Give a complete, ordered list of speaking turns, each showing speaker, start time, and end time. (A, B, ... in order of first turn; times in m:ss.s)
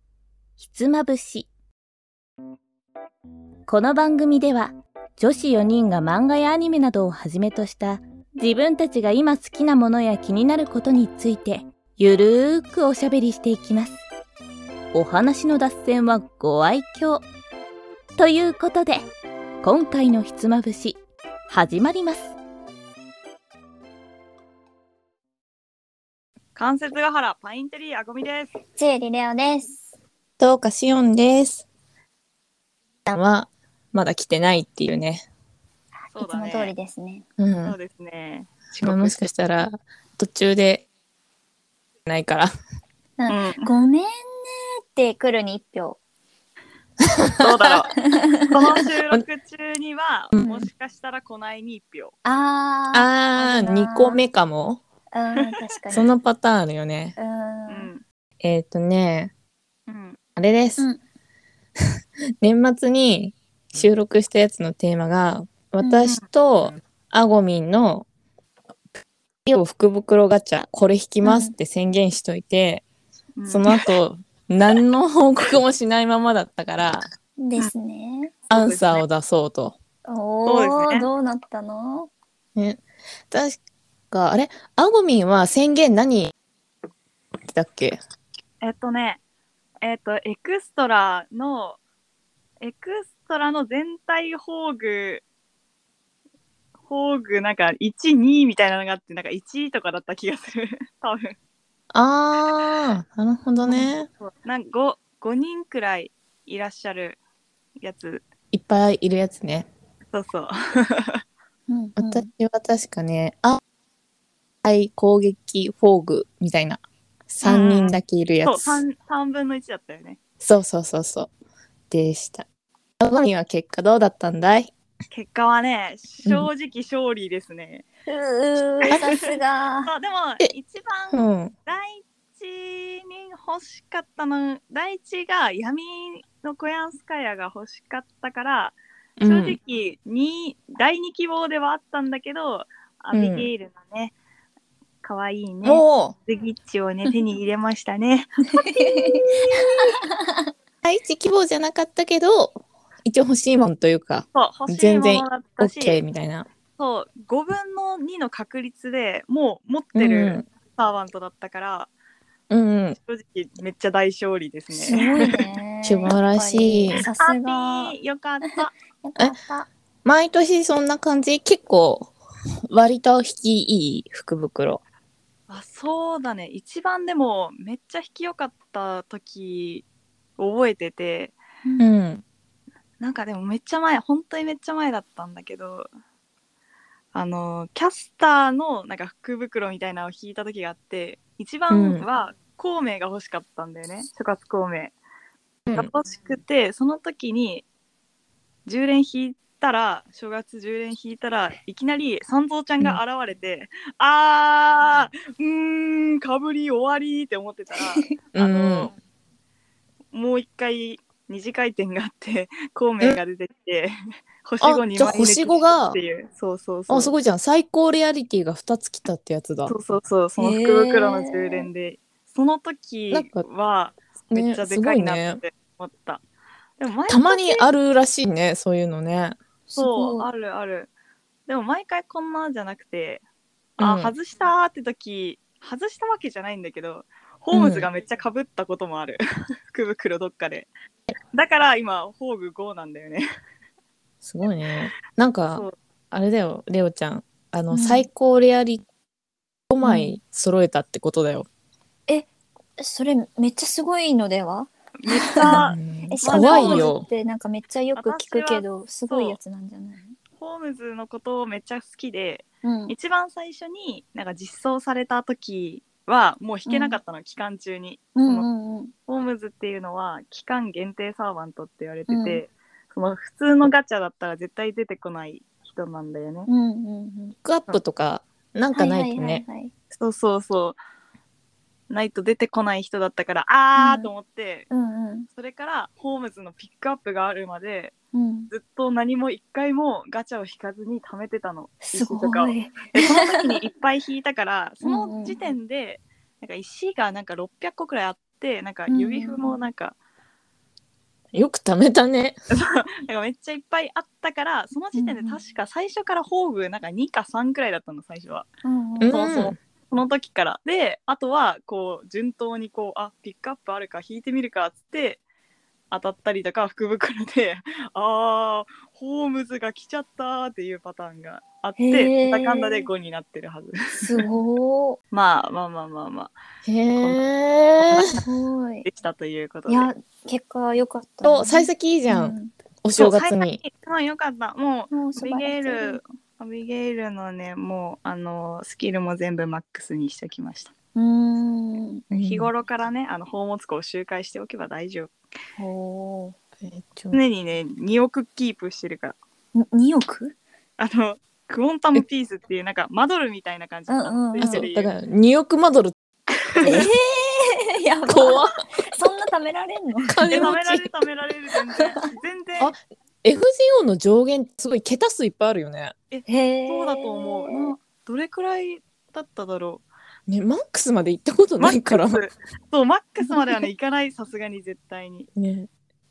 0:00.6-0:01.5 A
0:03.7-0:14.0 A
0:14.9-0:17.2 A
0:18.2-0:19.1 A
0:19.6-0:22.4 A
0:26.6-0:28.5 B
0:28.7-0:29.8 C
0:30.4-0:31.6 D
0:33.0-0:35.2 D
0:36.1-0:36.7 B
0:36.1-0:37.2 C
0:37.4-0:37.8 D
0:37.6-0:39.2 B
0:38.8-0:40.8 D
0:42.0-0:42.5 D
0:43.2-0:46.0 C
0:43.3-0:43.7 B
0:47.1-0:47.7 D
0:47.4-0:48.0 B
0:48.0-0:48.6 C
0:48.5-0:52.1 B
0:50.3-0:50.6 D
0:52.2-0:54.2 C
0:52.9-0:54.8 D
0:55.1-0:56.1 C
0:55.9-0:57.2 D
0:57.2-0:57.9 C
0:57.7-0:58.0 B
0:58.4-0:59.3 D
0:59.9-1:00.2 B
1:00.4-1:00.8 D
1:02.4-1:08.0 D
1:05.9-1:06.2 B
1:09.4-1:12.8 D
1:11.2-1:11.5 C
1:13.4-1:13.9 B
1:13.4-1:17.0 D
1:17.4-1:18.3 C
1:18.5-1:19.8 D
1:18.5-1:19.0 B
1:20.0-1:22.1 C
1:20.4-1:21.1 B
1:22.6-1:23.6 D
1:24.1-1:26.3 D
1:27.4-1:28.0 D
1:28.6-1:29.2 B
1:29.8-1:31.8 B
1:32.6-1:35.2 B
1:36.9-1:41.4 B
1:41.9-1:44.1 D
1:44.2-1:47.2 B
1:47.8-1:48.2 B
1:48.5-1:49.7 D
1:50.1-1:51.2 B
1:51.7-1:52.3 C
1:52.0-1:53.6 D
1:54.6-1:58.8 D
1:57.4-2:00.2 B
2:00.4-2:01.3 D
2:01.9-2:02.4 D
2:03.0-2:04.7 D
2:05.1-2:07.8 B
2:08.1-2:09.9 C
2:08.8-2:09.3 B
2:09.8-2:24.1 B
2:11.1-2:11.5 D
2:19.2-2:19.6 D
2:23.1-2:23.5 D
2:25.0-2:29.4 B
2:25.6-2:26.1 D
2:28.4-2:30.4 C
2:30.8-2:36.5 D
2:34.3-2:36.0 B
2:36.8-2:41.9 B
2:39.9-2:40.4 D
2:42.5-2:43.0 D
2:43.0-2:45.5 B
2:44.7-2:47.9 C
2:45.8-2:47.1 D
2:47.2-2:48.7 B
2:49.0-2:49.7 C
2:50.0-2:52.1 D
2:52.7-2:54.8 D
2:55.5-2:59.8 B
3:00.4-3:01.4 B
3:01.6-3:01.9 C
3:01.8-3:02.2 D
3:03.0-3:05.9 B
3:07.1-3:14.9 B
3:11.7-3:12.0 D
3:15.6-3:15.9 D
3:15.7-3:17.6 B
3:18.6-3:28.9 B
3:27.8-3:28.1 C
3:28.3-3:28.9 D
3:30.1-3:37.1 B
3:34.6-3:36.0 D
3:36.9-3:39.7 D
3:39.7-3:46.2 B
3:40.4-3:41.7 C
3:43.1-3:43.4 D
3:44.3-3:45.4 D
3:46.8-3:47.7 B
3:47.1-3:49.4 D
3:49.7-3:50.3 C
3:49.8-3:50.9 B
3:51.5-3:53.2 B
3:53.8-4:00.7 B
3:53.8-3:54.1 D
3:57.5-3:57.9 D
4:01.3-4:03.2 B
4:04.2-4:08.8 D
4:05.5-4:05.7 B
4:07.7-4:08.1 C
4:09.7-4:11.5 D
4:09.8-4:10.1 C
4:12.1-4:20.1 C
4:15.0-4:16.9 B
4:15.5-4:17.0 D
4:18.0-4:19.4 B
4:20.4-4:28.5 B
4:22.6-4:22.9 C
4:26.7-4:27.0 C
4:28.2-4:28.9 C
4:29.1-4:36.5 B
4:32.1-4:32.4 C
4:36.5-4:37.3 C
4:37.4-4:39.4 D
4:38.7-4:39.7 C
4:39.9-4:40.8 B
4:41.9-4:44.7 B
4:43.8-4:44.1 C
4:44.7-4:45.3 C
4:45.4-4:47.9 B
4:48.1-4:48.5 C
4:48.5-4:59.9 B
4:51.8-4:53.6 C
4:54.8-4:55.4 C
4:58.9-4:59.5 C
5:01.3-5:02.4 D
5:02.5-5:08.5 B
5:04.9-5:05.4 C
5:08.6-5:09.3 C
5:09.0-5:09.6 D
5:09.0-5:15.2 B
5:15.9-5:24.3 B
5:21.8-5:22.9 C
5:24.0-5:25.0 C
5:25.1-5:26.3 B
5:26.6-5:28.1 D
5:27.0-5:27.2 B
5:27.8-5:28.2 B
5:28.2-5:28.9 C
5:28.8-5:29.9 B
5:29.7-5:32.5 C
5:31.2-5:33.6 D
5:33.0-5:40.7 B
5:34.9-5:36.0 C
5:40.9-5:42.0 C
5:42.1-5:42.5 D
5:42.2-5:45.1 B
5:45.6-5:46.4 C
5:46.6-5:47.2 D
5:47.1-5:49.2 B
5:49.5-5:50.4 C
5:50.8-5:54.9 B
5:53.9-5:54.6 C
5:54.4-5:55.9 D
5:56.5-5:56.9 B
5:56.6-5:56.9 D
5:56.6-6:00.5 C
5:58.1-5:58.6 D
6:00.1-6:00.9 D
6:00.3-6:02.7 B
6:01.8-6:02.0 C
6:02.6-6:05.9 D
6:06.1-6:09.8 B
6:06.2-6:07.7 C
6:10.3-6:12.2 D
6:11.6-6:15.3 B
6:13.3-6:13.6 C
6:15.4-6:15.7 D